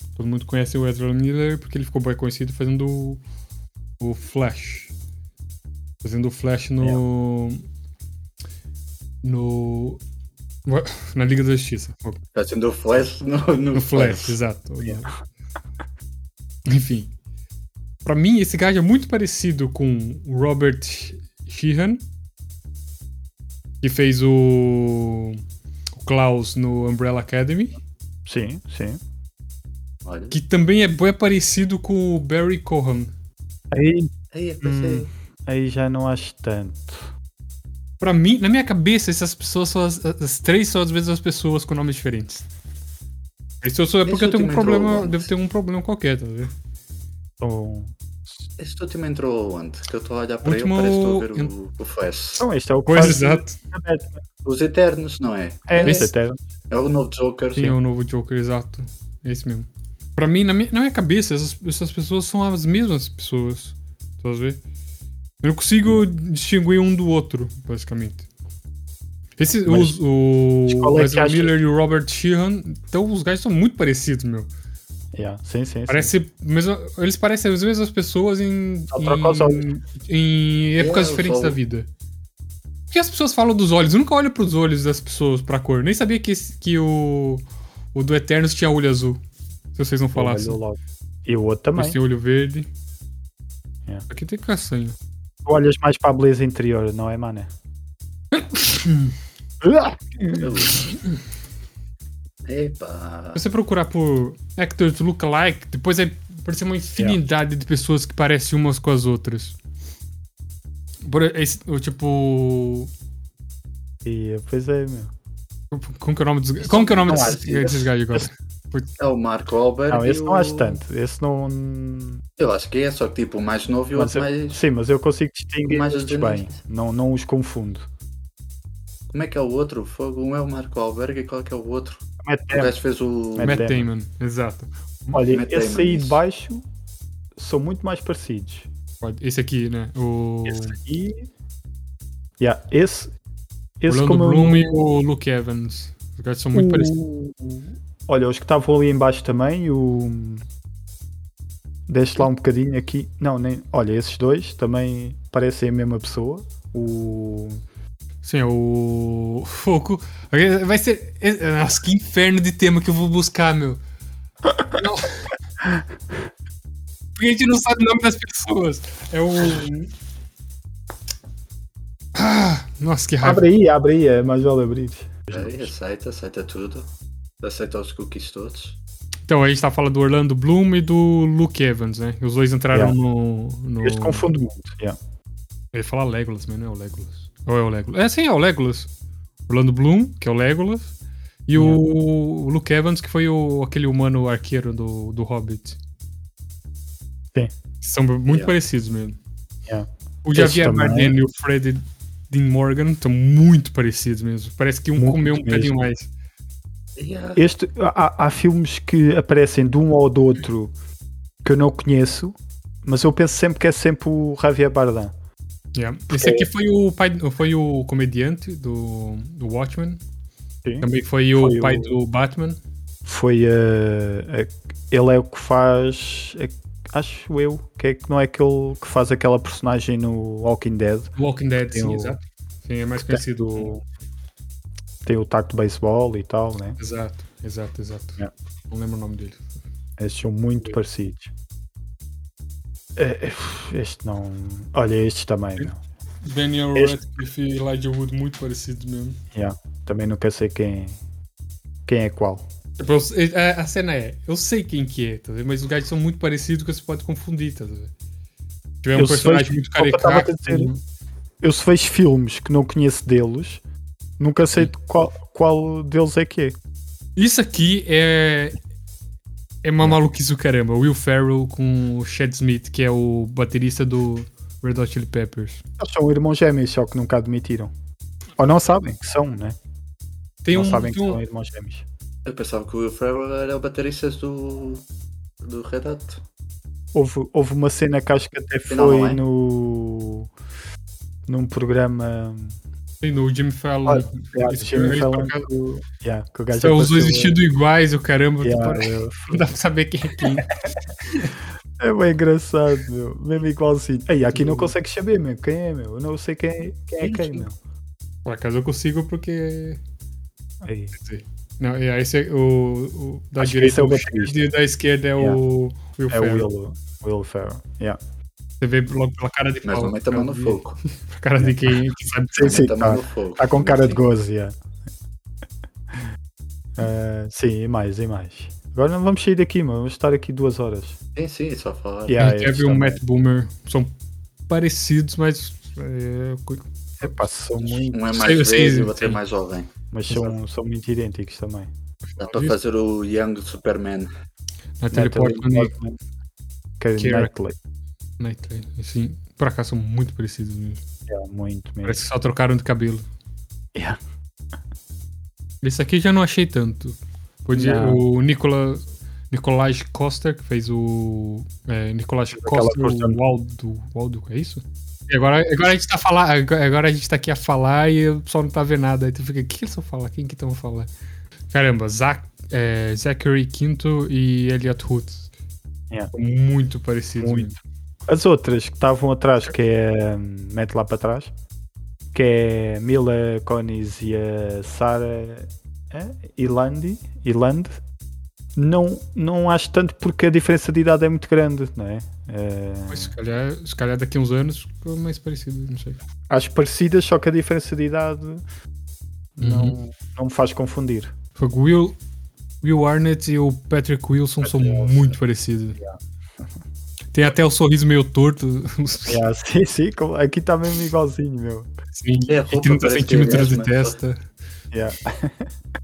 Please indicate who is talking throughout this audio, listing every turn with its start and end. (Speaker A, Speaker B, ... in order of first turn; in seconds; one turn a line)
Speaker A: 0.2-3.2
Speaker A: 4.0-4.9
Speaker A: 6.0-7.6
Speaker A: 9.2-10.0
Speaker A: 10.7-12.2
Speaker B: 12.3-14.4
Speaker A: 13.7-15.2
Speaker A: 16.7-17.1
Speaker A: 18.1-22.0
Speaker A: 23.8-25.4
Speaker A: 26.0-27.8
Speaker C: 28.3-29.0
Speaker B: 30.1-30.4
Speaker A: 30.3-33.1
Speaker C: 33.7-34.1
Speaker B: 34.3-35.1
Speaker C: 34.6-37.1
Speaker A: 38.0-42.5
Speaker A: 43.6-46.5
Speaker B: 44.0-45.3
Speaker C: 47.4-48.4
Speaker B: 48.6-52.5
Speaker A: 50.4-51.5
Speaker C: 52.4-54.2
Speaker A: 52.9-53.6
Speaker B: 54.4-56.1
Speaker C: 55.7-56.4
Speaker A: 55.8-56.1
Speaker B: 56.7-57.8
Speaker A: 57.6-64.6
Speaker A: 65.4-68.3
Speaker A: 69.4-74.5
Speaker C: 69.7-70.0
Speaker C: 70.7-71.5
Speaker C: 75.1-76.1
Speaker A: 75.9-81.9
Speaker C: 78.9-79.7
Speaker B: 80.8-81.6
Speaker A: 82.9-89.2
Speaker A: 89.8-90.6
Speaker C: 90.2-92.0
Speaker A: 91.8-92.7
Speaker A: 94.1-95.0
Speaker C: 95.5-97.5
Speaker A: 98.3-99.1
Speaker C: 99.6-100.6
Speaker B: 100.4-100.9
Speaker B: 102.5-103.4
Speaker A: 103.3-109.6
Speaker A: 111.0-112.9
Speaker C: 114.0-115.1
Speaker A: 115.7-118.9
Speaker B: 116.6-117.8
Speaker C: 117.1-118.3
Speaker B: 119.0-120.8
Speaker C: 119.9-122.2
Speaker B: 122.4-124.6
Speaker C: 124.0-127.9
Speaker B: 125.7-126.6
Speaker B: 129.1-133.6
Speaker C: 132.2-132.8
Speaker C: 133.4-133.9
Speaker A: 133.4-135.2
Speaker C: 135.1-136.6
Speaker B: 135.3-136.2
Speaker C: 137.4-138.7
Speaker A: 139.0-140.8
Speaker C: 140.5-141.3
Speaker C: 142.4-143.1
Speaker C: 143.8-144.8
Speaker A: 143.9-146.9
Speaker C: 146.5-150.4
Speaker C: 151.9-157.6
Speaker A: 158.2-163.8
Speaker A: 164.7-165.3
Speaker A: 167.2-169.9
Speaker A: 172.2-173.5
Speaker C: 173.2-175.7
Speaker B: 175.3-176.9
Speaker B: 177.4-178.8
Speaker A: 179.3-184.3
Speaker C: 183.8-185.0
Speaker A: 185.7-188.9
Speaker A: 189.5-190.9
Speaker A: 191.5-195.8
Speaker C: 191.6-191.8
Speaker A: 197.8-199.2
Speaker C: 199.7-201.2
Speaker A: 200.2-206.1
Speaker C: 205.0-205.8
Speaker B: 207.0-207.5
Speaker C: 207.4-210.7
Speaker C: 211.4-215.1
Speaker A: 215.8-220.0
Speaker C: 216.1-216.5
Speaker C: 220.7-221.9
Speaker A: 220.8-222.6
Speaker C: 223.1-231.1
Speaker A: 231.2-233.8
Speaker C: 231.7-232.2
Speaker C: 233.1-233.8
Speaker C: 235.0-236.8
Speaker A: 236.8-238.2
Speaker A: 238.7-239.5
Speaker C: 240.0-241.3
Speaker C: 243.0-245.8
Speaker A: 246.2-249.2
Speaker C: 249.3-251.0
Speaker C: 251.9-252.5
Speaker A: 252.8-257.9
Speaker A: 258.8-260.8
Speaker C: 259.0-260.7
Speaker C: 261.4-263.6
Speaker C: 264.2-266.6
Speaker A: 267.2-268.6
Speaker A: 269.6-275.6
Speaker C: 275.8-277.7
Speaker C: 278.4-279.6
Speaker A: 280.4-281.2
Speaker C: 280.5-281.9
Speaker B: 282.3-284.8
Speaker B: 285.4-286.2
Speaker C: 286.9-290.3
Speaker B: 288.7-289.2
Speaker C: 291.3-292.6
Speaker A: 293.0-295.5
Speaker C: 293.9-297.4
Speaker A: 296.5-300.5
Speaker C: 298.4-299.4
Speaker A: 301.1-301.3
Speaker C: 301.8-307.6
Speaker A: 304.3-304.7
Speaker A: 308.3-309.8
Speaker C: 310.6-310.9
Speaker A: 311.0-316.5
Speaker C: 313.4-314.5
Speaker C: 316.1-318.0
Speaker A: 318.6-322.6
Speaker B: 319.6-320.8
Speaker C: 322.4-324.5
Speaker B: 322.4-324.1
Speaker C: 326.8-331.0
Speaker B: 331.2-332.3
Speaker C: 332.1-333.0
Speaker A: 332.2-333.9
Speaker A: 334.5-337.1
Speaker C: 337.0-338.0
Speaker B: 337.9-339.7
Speaker A: 338.1-339.2
Speaker C: 339.9-341.7
Speaker A: 342.1-342.6
Speaker B: 342.2-344.1
Speaker A: 344.8-345.7
Speaker C: 344.9-346.0
Speaker C: 346.8-347.6
Speaker A: 347.0-347.3
Speaker A: 348.2-350.8
Speaker C: 351.1-352.0
Speaker A: 351.8-353.1
Speaker A: 355.6-370.9
Speaker C: 357.5-358.0
Speaker C: 362.4-363.2
Speaker A: 371.5-375.3
Speaker A: 376.1-377.6
Speaker C: 377.2-377.6
Speaker C: 378.1-381.3
Speaker C: 382.1-387.8
Speaker C: 388.6-393.1
Speaker A: 392.9-396.0
Speaker C: 396.3-398.4
Speaker C: 399.4-401.1
Speaker A: 399.4-399.8
Speaker A: 401.4-402.0
Speaker A: 402.6-405.8
Speaker C: 404.4-405.0
Speaker A: 407.1-409.2
Speaker C: 409.1-411.7
Speaker A: 412.0-414.2
Speaker B: 412.3-414.0
Speaker C: 414.7-415.5